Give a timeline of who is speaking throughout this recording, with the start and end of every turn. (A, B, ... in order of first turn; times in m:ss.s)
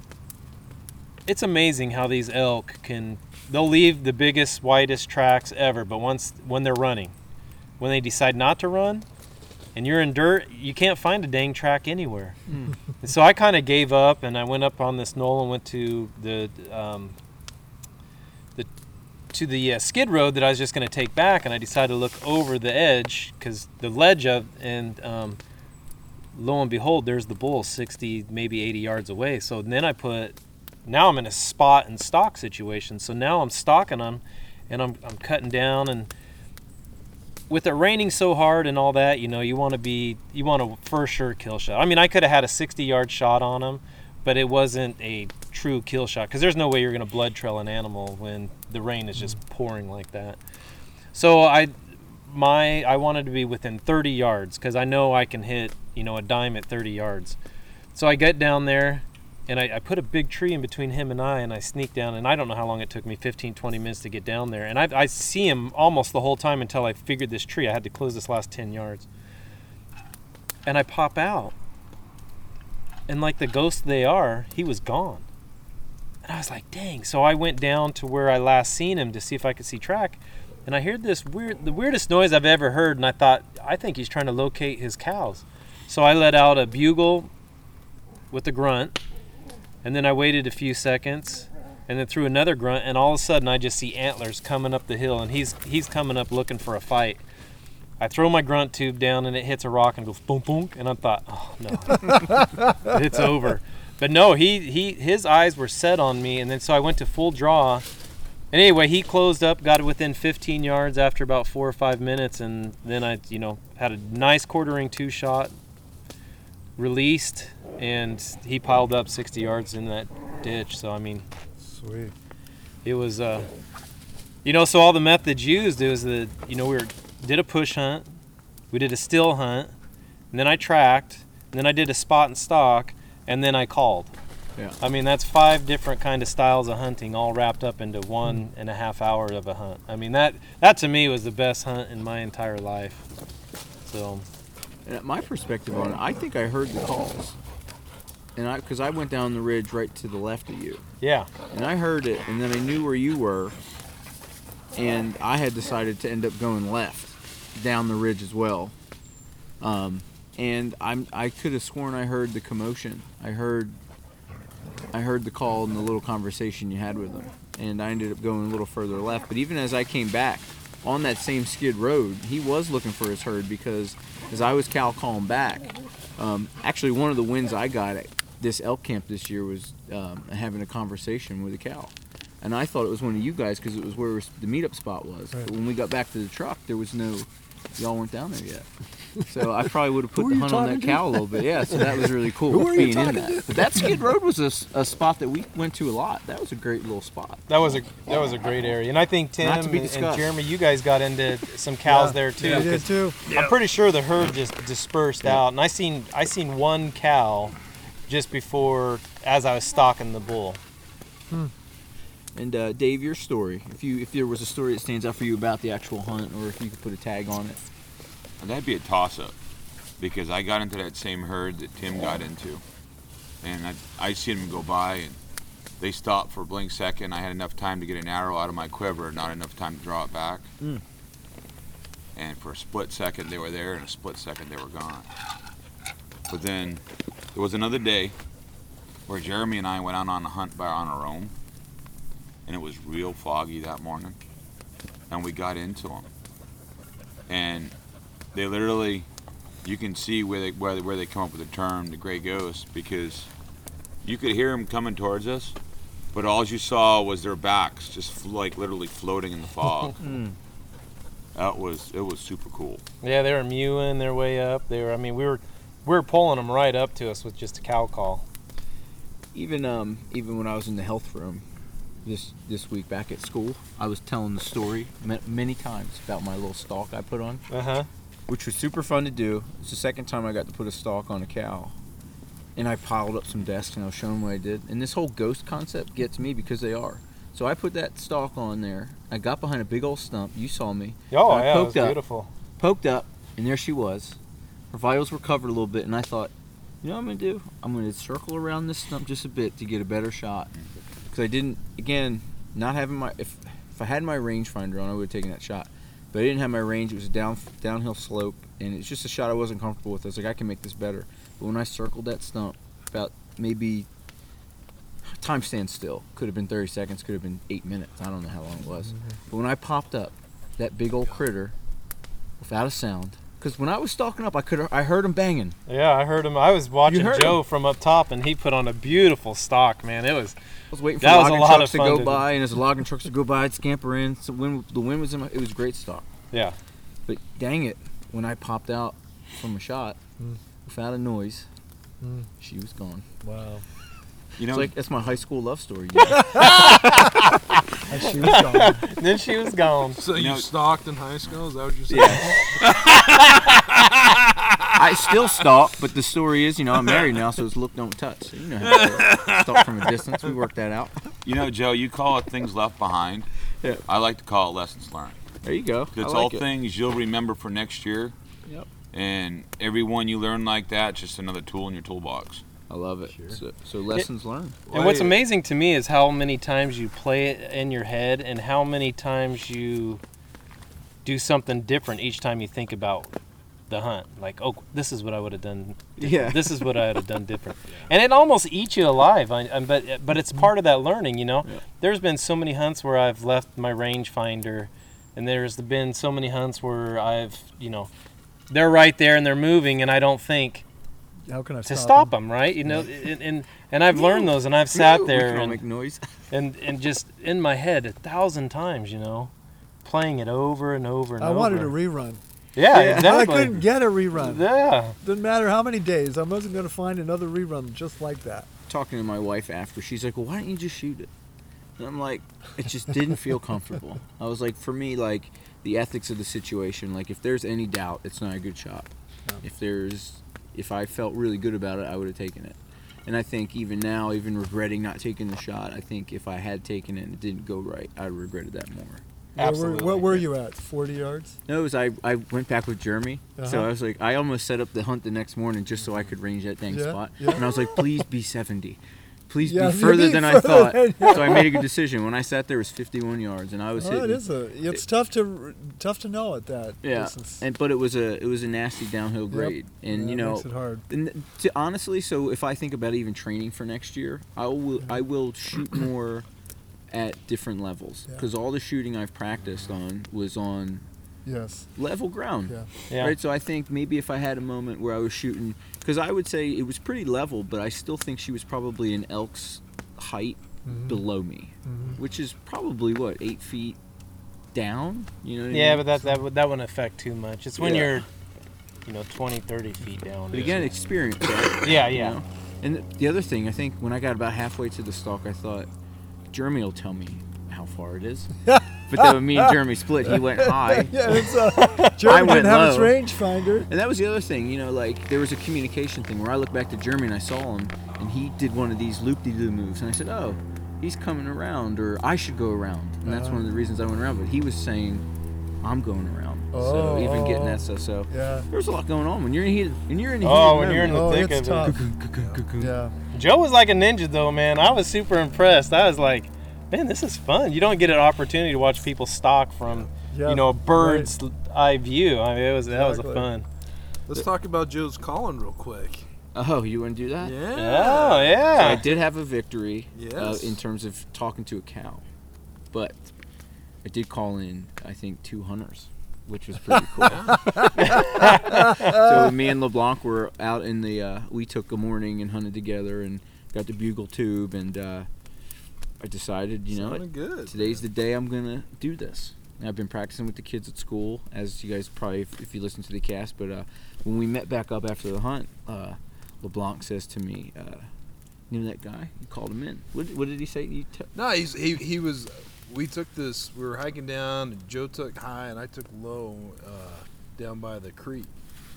0:01.3-0:07.1 A
0:07.8-0:09.0 A
0:09.7-0:12.4 A
0:12.5-0:12.7 B
0:13.0-0:17.1 A
0:19.3-0:25.4 A
0:26.3-0:36.1 A
0:37.5-0:50.4 A
0:51.1-0:57.4 A
0:57.9-1:09.1 A
1:10.6-1:11.5 A
1:13.1-1:15.2 A
1:16.2-1:27.3 A
1:28.3-1:29.0 A
1:29.8-1:37.2 A
1:38.0-1:47.8 A
1:48.5-1:55.5 A
1:56.8-2:01.2 A
2:01.6-2:02.1 C
2:02.8-2:03.5 A
2:04.4-2:08.1 A
2:08.7-2:09.7 A
2:10.3-2:14.1 A
2:14.8-2:23.0 A
2:23.8-2:24.2 A
2:24.8-2:27.4 B
2:28.4-2:30.8 B
2:31.0-2:31.3 A
2:31.5-2:33.6 B
2:34.7-2:38.7 B
2:39.6-2:43.8 B
2:44.9-3:08.7 B
3:09.2-3:17.4 B
3:10.1-3:14.0 C
3:17.5-3:27.5 A
3:19.4-3:20.3 B
3:21.8-3:23.2 C
3:23.2-3:23.6 D
3:28.1-3:30.6 A
3:32.3-3:37.6 B
3:38.4-3:39.3 E
3:40.0-3:42.6 E
3:43.4-3:45.2 E
3:45.8-3:50.5 E
3:52.2-3:55.1 E
3:56.3-3:56.8 E
3:57.3-3:58.1 E
3:59.1-4:01.3 E
4:02.4-4:04.2 E
4:05.1-4:06.1 E
4:07.3-4:07.7 E
4:08.3-4:09.1 E
4:09.6-4:13.3 E
4:14.0-4:15.6 E
4:16.1-4:20.0 E
4:20.0-4:20.4 B
4:21.3-4:22.8 E
4:23.0-4:28.2 A
4:29.3-4:31.4 B
4:32.0-4:37.4 B
4:37.5-4:37.9 A
4:38.3-4:41.8 B
4:42.6-4:52.0 B
4:51.1-4:52.3 A
4:52.6-4:54.2 B
4:54.7-5:00.5 B
5:01.1-5:13.9 B
5:15.0-5:21.5 B
5:22.4-5:25.6 B
5:25.7-5:30.4 A
5:26.8-5:27.4 B
5:30.7-5:36.1 B
5:31.0-5:32.2 A
5:36.3-5:36.6 A
5:37.0-5:40.0 B
5:40.6-5:41.5 B
5:42.0-5:42.3 C
5:42.4-5:43.0 B
5:43.2-5:43.6 C
5:44.4-5:44.7 E
5:44.4-5:46.5 B
5:46.2-5:46.5 C
5:46.3-5:47.2 A
5:47.8-5:48.8 C
5:48.2-5:50.0 A
5:50.0-5:55.2 D
5:50.1-5:50.5 E
5:51.9-5:52.4 B
5:54.7-6:01.0 B
5:56.8-5:57.1 D
5:58.6-6:00.3 D
6:01.2-6:03.3 E
6:03.9-6:05.2 E
6:05.4-6:06.4 B
6:05.9-6:08.1 E
6:08.9-6:12.4 E
6:12.7-6:14.6 B
6:13.1-6:13.4 D
6:14.7-6:15.2 D
6:14.7-6:20.0 A
6:21.0-6:23.1 A
6:23.7-6:37.9 A
6:26.0-6:26.7 B
6:38.5-6:40.6 A
6:41.3-6:42.1 C
6:41.6-6:45.6 A
6:43.9-6:46.1 B
6:46.3-6:49.3 A
6:49.8-6:51.7 A
6:51.2-6:52.2 C
6:52.6-6:55.0 A
6:52.7-6:53.3 B
6:52.8-6:54.5 C
6:55.0-6:58.5 C
6:58.7-7:01.1 B
7:01.8-7:19.0 B
7:19.4-7:20.3 A
7:19.4-7:21.4 C
7:21.5-7:34.8 B
7:23.4-7:23.7 C
7:26.7-7:27.9 C
7:29.4-7:31.7 C
7:33.8-7:37.4 C
7:36.8-7:46.3 B
7:39.3-7:40.8 C
7:46.9-7:50.9 B
7:51.2-7:51.7 C
7:51.8-8:03.8 B
7:52.9-7:53.1 A
8:00.6-8:01.0 C
8:01.6-8:02.0 C
8:04.5-8:05.9 B
8:05.5-8:08.0 A
8:07.6-8:08.0 B
8:08.8-8:10.7 A
8:10.3-8:15.7 B
8:11.6-8:12.2 A
8:16.3-8:18.3 B
8:18.4-8:19.6 C
8:18.9-8:21.3 B
8:20.1-8:23.7 C
8:21.6-8:21.9 A
8:22.0-8:23.0 B
8:23.7-8:35.0 B
8:33.0-8:33.4 C
8:35.6-8:42.7 B
8:36.5-8:38.5 C
8:40.2-8:41.8 A
8:40.8-8:41.8 C
8:42.2-8:42.4 D
8:42.6-8:42.9 C
8:43.1-8:53.5 A
8:50.1-8:51.1 C
8:52.7-8:53.3 C
8:54.1-8:56.1 D
8:56.3-8:57.4 B
8:57.2-8:59.0 D
8:57.5-8:58.8 A
8:58.6-9:02.0 B
8:59.9-9:00.6 D
9:02.7-9:03.0 B
9:03.8-9:15.1 B
9:07.0-9:07.4 D
9:07.8-9:08.8 A
9:08.8-9:09.2 C
9:16.0-9:27.9 B
9:16.7-9:17.8 D
9:28.5-9:31.1 B
9:31.1-9:38.3 D